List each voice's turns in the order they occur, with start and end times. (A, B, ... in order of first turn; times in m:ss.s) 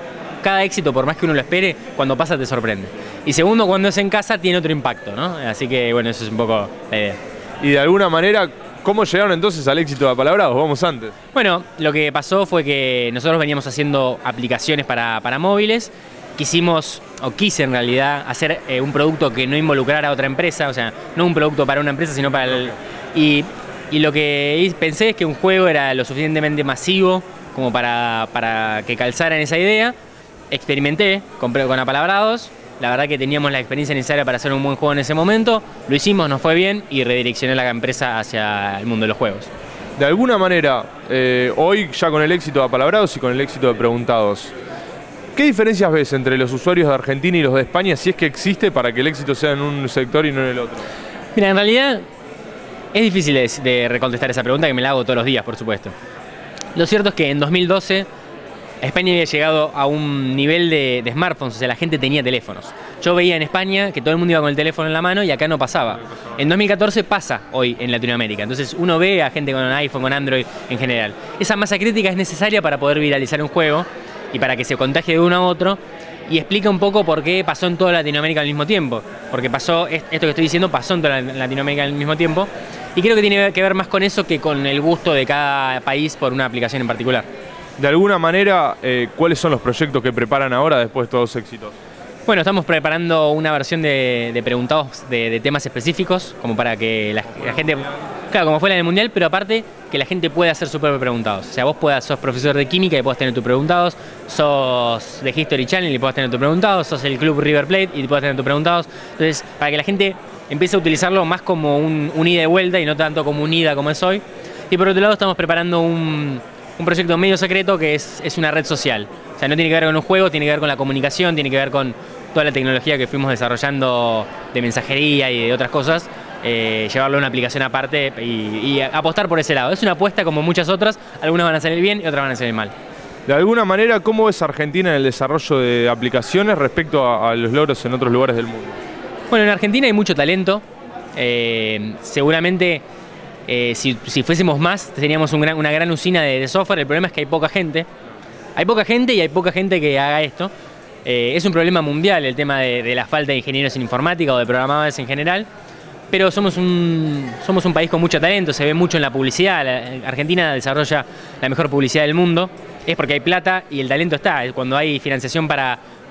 0:00.4-0:07.2 A
0:07.6-0:11.2 B
0:11.3-0:29.9 A
0:30.5-0:39.5 A
0:40.0-0:44.5 B
0:45.3-0:50.9 B
0:51.3-0:52.0 A
0:52.9-0:55.9 A
0:56.7-0:58.1 A
0:58.8-1:27.2 A
1:27.8-1:31.7 B
1:32.2-2:12.7 A
2:13.3-2:18.8 B
2:19.3-2:20.6 A
2:21.1-2:22.8 A
2:23.5-2:27.9 A
2:28.6-2:30.5 A
2:31.0-2:35.5 A
2:36.1-2:45.8 A